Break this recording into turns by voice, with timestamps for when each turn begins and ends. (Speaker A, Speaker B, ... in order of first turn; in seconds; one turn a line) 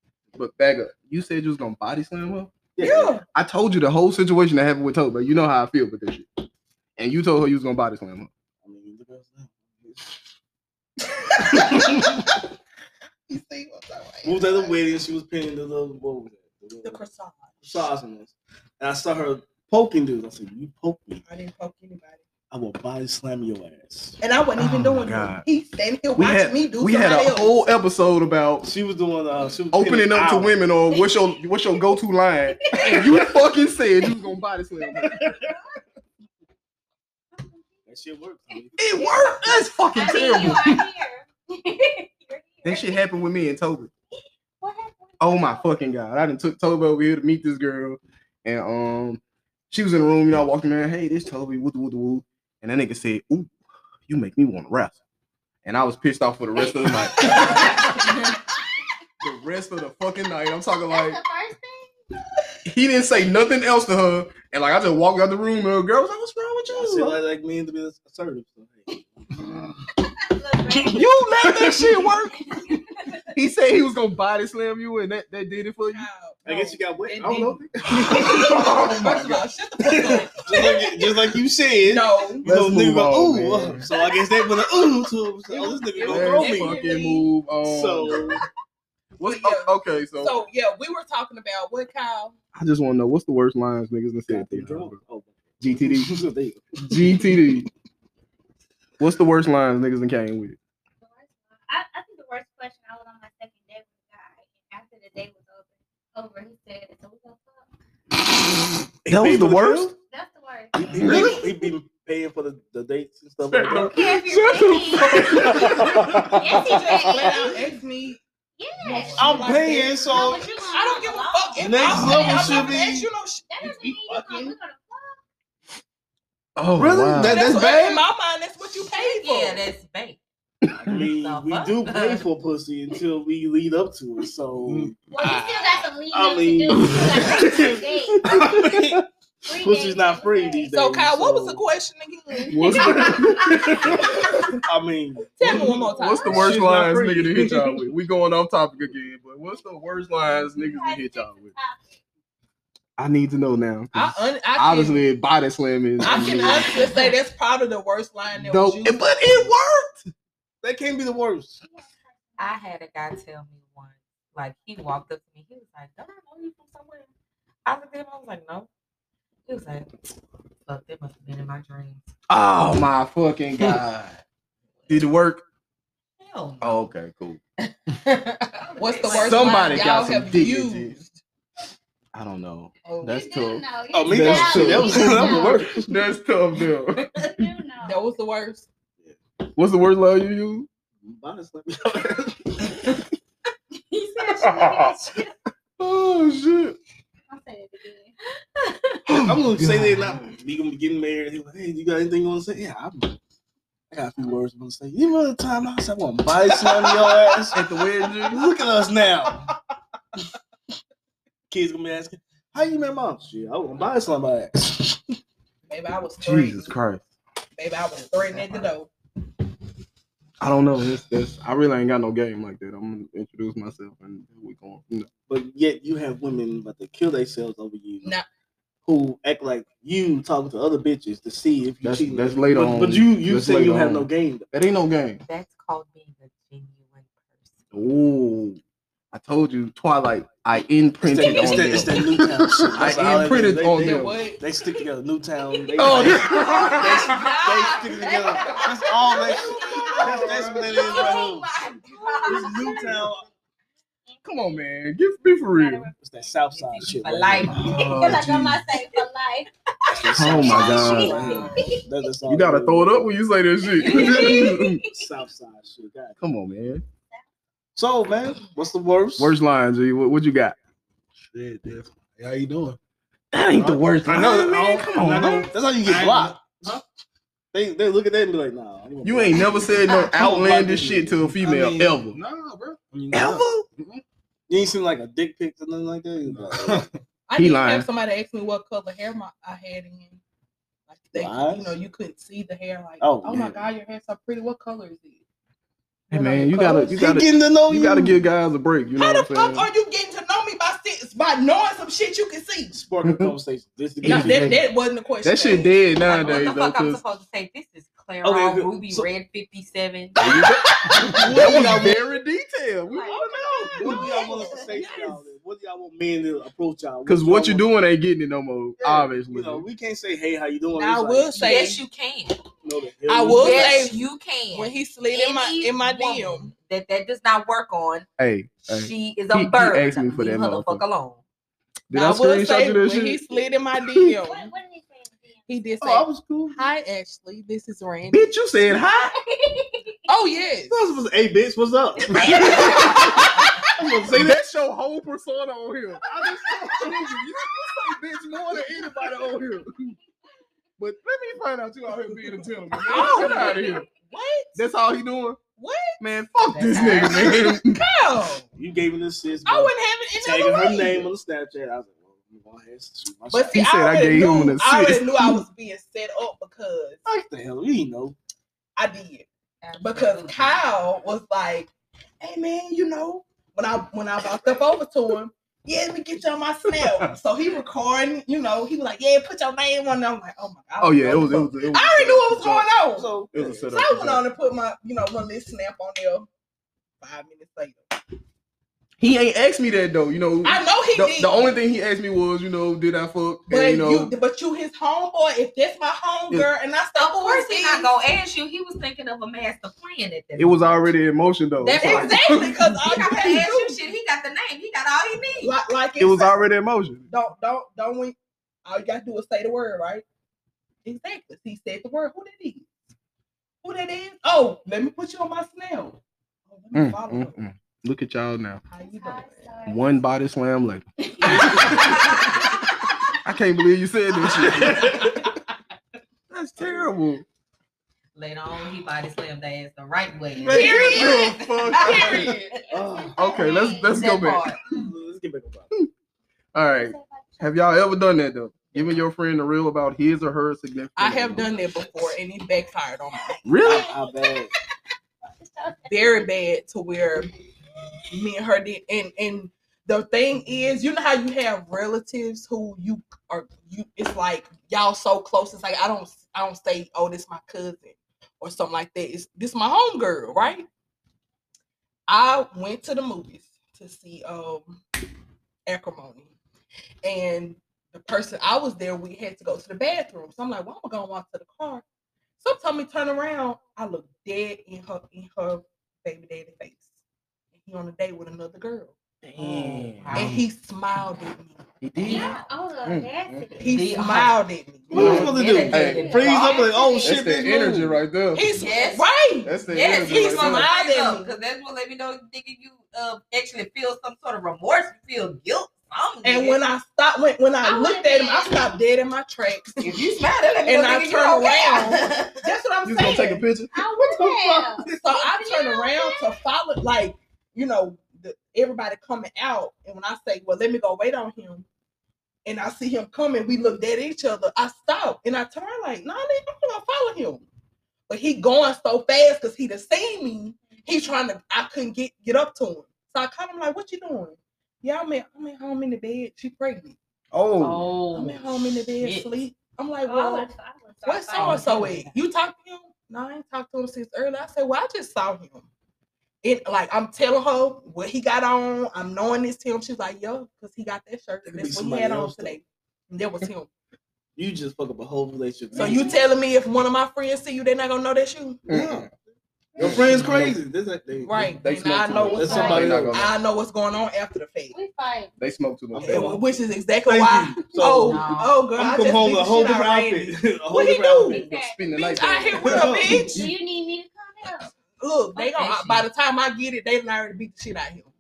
Speaker A: 0.3-2.5
Speaker B: 2.8-3.2
Speaker C: 2.8-3.2
Speaker A: 3.3-6.3
Speaker A: 7.0-8.3
Speaker B: 8.6-10.2
Speaker C: 11.4-12.4
Speaker B: 11.5-12.1
Speaker C: 13.3-14.8
Speaker B: 14.2-17.0
Speaker C: 16.8-17.6
Speaker B: 17.6-21.2
Speaker C: 21.2-22.2
Speaker B: 22.5-24.2
Speaker C: 24.2-27.6
Speaker A: 24.6-25.4
Speaker A: 26.2-28.7
Speaker B: 28.6-30.6
Speaker A: 29.7-35.5
Speaker D: 30.9-32.0
Speaker D: 32.6-33.5
Speaker D: 34.8-35.8
Speaker D: 37.3-37.8
Speaker B: 37.9-38.8
Speaker D: 38.5-43.0
Speaker A: 38.8-40.9
Speaker C: 39.0-40.6
Speaker A: 42.6-43.9
Speaker D: 44.6-45.7
Speaker A: 45.2-53.5
Speaker A: 54.1-55.0
Speaker A: 55.6-57.8
Speaker D: 57.2-58.0
Speaker C: 57.3-57.6
Speaker A: 59.2-61.2
Speaker D: 60.8-62.0
Speaker A: 62.7-67.2
Speaker B: 66.7-69.7
Speaker D: 70.3-71.1
Speaker B: 70.8-71.9
Speaker A: 70.9-72.4
Speaker A: 73.3-76.1
Speaker C: 75.9-81.3
Speaker B: 76.5-78.7
Speaker A: 78.0-79.4
Speaker B: 79.8-86.8
Speaker C: 81.8-82.5
Speaker A: 82.5-83.9
Speaker C: 85.5-87.0
Speaker A: 86.0-88.3
Speaker B: 87.6-88.4
Speaker A: 89.2-90.4
Speaker C: 89.2-92.4
Speaker A: 92.5-95.0
Speaker B: 94.3-97.4
Speaker A: 95.6-96.2
Speaker A: 96.8-97.7
Speaker A: 99.0-100.6
Speaker D: 101.0-107.7
Speaker B: 109.1-109.9
Speaker A: 109.1-109.9
Speaker D: 110.1-111.5
Speaker B: 110.7-114.0
Speaker A: 111.0-111.4
Speaker A: 113.5-117.3
Speaker D: 113.7-117.6
Speaker B: 115.2-116.3
Speaker C: 116.5-118.2
Speaker D: 118.6-125.2
Speaker E: 118.8-119.4
Speaker C: 118.9-124.5
Speaker B: 119.1-120.6
Speaker B: 121.6-123.1
Speaker A: 126.6-127.5
Speaker B: 126.8-128.0
Speaker C: 127.2-129.6
Speaker E: 128.9-130.2
Speaker B: 130.7-135.0
Speaker E: 131.2-132.2
Speaker D: 135.1-138.8
Speaker B: 136.1-141.7
Speaker A: 137.0-137.5
Speaker A: 138.3-139.0
Speaker D: 139.5-140.7
Speaker C: 140.7-143.2
Speaker A: 142.5-144.6
Speaker D: 142.6-143.4
Speaker B: 143.6-144.1
Speaker C: 144.0-144.6
Speaker B: 144.7-147.8
Speaker C: 145.4-146.6
Speaker D: 145.7-146.7
Speaker A: 146.0-151.5
Speaker D: 150.2-152.0
Speaker A: 153.0-156.7
Speaker C: 153.9-155.0
Speaker C: 156.0-159.4
Speaker D: 156.6-157.1
Speaker A: 158.4-160.1
Speaker B: 160.6-161.6
Speaker D: 161.6-162.0
Speaker E: 162.4-167.1
Speaker E: 167.7-168.7
Speaker E: 169.5-169.9
Speaker E: 170.7-172.1
Speaker A: 172.3-174.2
Speaker A: 174.9-175.4
Speaker E: 176.2-176.9
Speaker A: 176.6-177.4
Speaker E: 177.6-179.8
Speaker C: 178.8-181.1
Speaker D: 179.0-179.4
Speaker A: 179.1-181.0
Speaker A: 182.1-187.5
Speaker C: 182.9-183.2
Speaker D: 183.1-185.7
Speaker B: 183.9-185.9
Speaker D: 187.1-188.0
Speaker C: 187.8-188.7
Speaker A: 189.6-190.7
Speaker B: 191.0-192.9
Speaker D: 193.9-195.3
Speaker A: 194.4-194.9
Speaker A: 195.8-196.8
Speaker D: 197.3-198.2
Speaker A: 199.1-200.2
Speaker B: 199.2-203.2
Speaker F: 199.6-200.2
Speaker B: 203.9-207.6
Speaker A: 207.5-208.6
Speaker B: 208.2-209.5
Speaker B: 211.5-215.2
Speaker C: 215.7-216.7
Speaker A: 216.2-217.0
Speaker C: 217.6-218.9
Speaker A: 220.4-225.1
Speaker B: 225.3-228.2
Speaker B: 228.9-234.5
Speaker A: 231.8-235.2
Speaker E: 235.3-237.6
Speaker A: 237.7-238.6
Speaker A: 239.1-244.2
Speaker B: 241.0-251.5
Speaker D: 241.2-241.8
Speaker C: 243.8-244.4
Speaker C: 245.8-247.9
Speaker A: 245.8-247.2
Speaker E: 245.9-249.9
Speaker D: 249.3-253.3
Speaker C: 249.4-250.0
Speaker A: 249.8-250.6
Speaker E: 250.5-252.9
Speaker B: 252.3-253.2
Speaker D: 254.1-254.8
Speaker A: 254.2-255.9
Speaker D: 255.4-256.4
Speaker B: 256.0-257.9
Speaker E: 256.5-258.1
Speaker A: 257.5-258.6
Speaker D: 257.6-259.5
Speaker B: 259.9-263.1
Speaker E: 259.9-261.8
Speaker A: 260.1-261.2
Speaker D: 260.2-261.9
Speaker C: 261.2-261.8
Speaker A: 262.3-264.8
Speaker E: 263.8-264.8
Speaker D: 263.8-264.6
Speaker B: 264.4-266.2
Speaker A: 266.2-266.8
Speaker B: 267.8-269.3
Speaker A: 269.2-270.6
Speaker F: 271.2-272.8
Speaker A: 273.3-275.5
Speaker F: 273.5-274.0
Speaker B: 274.1-276.8
Speaker F: 275.8-276.8
Speaker B: 277.5-281.1
Speaker A: 279.0-282.2
Speaker D: 279.8-280.1
Speaker F: 281.1-284.0
Speaker A: 283.1-283.7
Speaker B: 284.5-286.9
Speaker F: 286.3-287.0
Speaker C: 287.3-290.2
Speaker A: 287.4-287.9
Speaker C: 290.9-295.2
Speaker B: 291.1-291.8
Speaker B: 293.0-293.7
Speaker C: 296.1-297.1
Speaker A: 296.1-299.7
Speaker B: 296.9-298.2
Speaker C: 299.0-302.7
Speaker B: 302.7-304.4
Speaker A: 303.0-303.3
Speaker A: 304.0-304.6
Speaker C: 304.0-305.8
Speaker A: 305.2-307.0
Speaker E: 306.0-310.3
Speaker B: 308.2-309.1
Speaker A: 310.2-313.2
Speaker C: 310.2-311.9
Speaker B: 311.1-312.0
Speaker C: 313.1-315.2
Speaker B: 313.1-317.7
Speaker D: 313.8-314.8
Speaker A: 317.1-319.7
Speaker B: 318.8-321.7
Speaker C: 320.8-321.8
Speaker E: 321.4-322.4
Speaker B: 322.6-323.9
Speaker C: 323.1-323.9
Speaker E: 323.3-328.1
Speaker C: 324.5-326.5
Speaker A: 328.2-330.8
Speaker E: 328.7-331.2
Speaker A: 331.9-334.1
Speaker C: 331.9-334.5
Speaker D: 334.2-335.8
Speaker C: 335.5-338.4
Speaker B: 335.8-336.6
Speaker A: 338.1-339.1
Speaker E: 339.3-340.0
Speaker C: 340.1-340.8
Speaker B: 340.7-344.4
Speaker A: 342.1-343.5
Speaker E: 342.2-342.7
Speaker C: 342.3-343.6
Speaker A: 344.1-349.9
Speaker B: 346.7-347.0
Speaker A: 350.8-353.9
Speaker C: 352.8-354.5
Speaker D: 352.9-353.9
Speaker A: 354.6-355.4
Speaker C: 355.6-356.0
Speaker A: 356.0-357.8
Speaker E: 356.5-357.3
Speaker C: 356.9-358.5
Speaker B: 358.6-363.6
Speaker C: 359.5-361.1
Speaker C: 363.3-367.0
Speaker A: 363.5-365.4
Speaker B: 367.1-368.2
Speaker C: 368.8-369.3
Speaker E: 369.6-370.6
Speaker C: 369.8-371.7
Speaker C: 372.2-383.1
Speaker A: 380.8-382.6
Speaker B: 382.9-383.7
Speaker A: 383.3-384.2
Speaker C: 383.7-386.3
Speaker C: 387.0-387.8
Speaker A: 389.0-394.1
Speaker C: 390.4-391.6
Speaker C: 393.5-397.9
Speaker E: 397.0-400.9
Speaker A: 400.4-403.4
Speaker E: 401.6-405.5
Speaker C: 401.7-403.8
Speaker C: 405.4-406.4
Speaker A: 406.0-407.1
Speaker C: 407.1-410.0
Speaker C: 410.9-412.7
Speaker C: 413.6-416.0
Speaker C: 416.5-417.3
Speaker A: 416.7-418.6
Speaker C: 418.7-419.5
Speaker D: 418.8-419.9
Speaker A: 419.7-422.4
Speaker D: 421.3-422.3
Speaker E: 421.3-422.4
Speaker A: 423.2-425.2
Speaker B: 424.5-425.0
Speaker A: 426.3-427.2
Speaker E: 428.1-432.5
Speaker C: 430.4-432.6
Speaker A: 430.4-432.4
Speaker D: 432.7-434.0
Speaker B: 432.7-433.4
Speaker A: 433.2-434.5
Speaker E: 433.9-434.6
Speaker B: 434.7-435.7
Speaker A: 436.5-441.5
Speaker D: 436.6-437.6
Speaker C: 441.0-443.4
Speaker D: 443.4-444.4
Speaker A: 443.5-443.9
Speaker B: 443.6-444.5
Speaker D: 445.4-446.5
Speaker C: 445.9-447.3
Speaker C: 448.1-460.7
Speaker C: 462.1-464.8
Speaker C: 465.7-466.3
Speaker C: 467.0-471.8
Speaker C: 472.4-476.9
Speaker C: 477.6-478.9
Speaker A: 479.2-480.3
Speaker E: 479.4-480.3
Speaker C: 480.1-481.6
Speaker A: 481.8-483.5
Speaker E: 482.0-482.4
Speaker D: 482.1-483.8
Speaker C: 483.6-485.2
Speaker E: 483.7-484.4
Speaker E: 484.9-486.7
Speaker B: 484.9-488.0
Speaker A: 484.9-486.1
Speaker D: 485.7-487.3
Speaker A: 487.0-488.4
Speaker C: 488.3-491.3
Speaker E: 488.5-489.1
Speaker A: 489.4-490.7
Speaker E: 489.7-496.6
Speaker C: 496.2-500.1
Speaker D: 497.6-498.8
Speaker E: 499.8-502.4
Speaker C: 500.6-503.4
Speaker A: 502.8-504.6
Speaker D: 503.7-506.4
Speaker C: 504.8-511.7
Speaker C: 512.5-517.5
Speaker C: 518.1-527.0
Speaker D: 520.7-521.1
Speaker A: 527.3-527.9
Speaker E: 527.6-529.3
Speaker C: 528.1-530.5
Speaker D: 530.0-532.0
Speaker C: 531.0-535.7
Speaker E: 531.4-532.1
Speaker C: 536.4-543.7
Speaker B: 541.5-542.6
Speaker B: 544.4-546.2
Speaker D: 545.8-546.2
Speaker C: 545.8-548.7
Speaker B: 548.7-549.1
Speaker A: 548.7-549.1
Speaker B: 549.8-551.5
Speaker A: 549.8-550.5
Speaker C: 551.2-554.8
Speaker A: 551.6-553.3
Speaker B: 552.2-553.3
Speaker D: 552.3-552.9
Speaker D: 554.7-555.3
Speaker A: 555.4-556.4
Speaker B: 555.9-556.5
Speaker C: 556.0-563.5
Speaker B: 557.0-561.5
Speaker E: 557.8-558.6
Speaker D: 561.3-561.8
Speaker E: 561.3-561.6
Speaker A: 561.5-563.5
Speaker B: 562.6-563.4
Speaker D: 563.1-564.8
Speaker C: 565.0-568.1
Speaker E: 565.4-566.1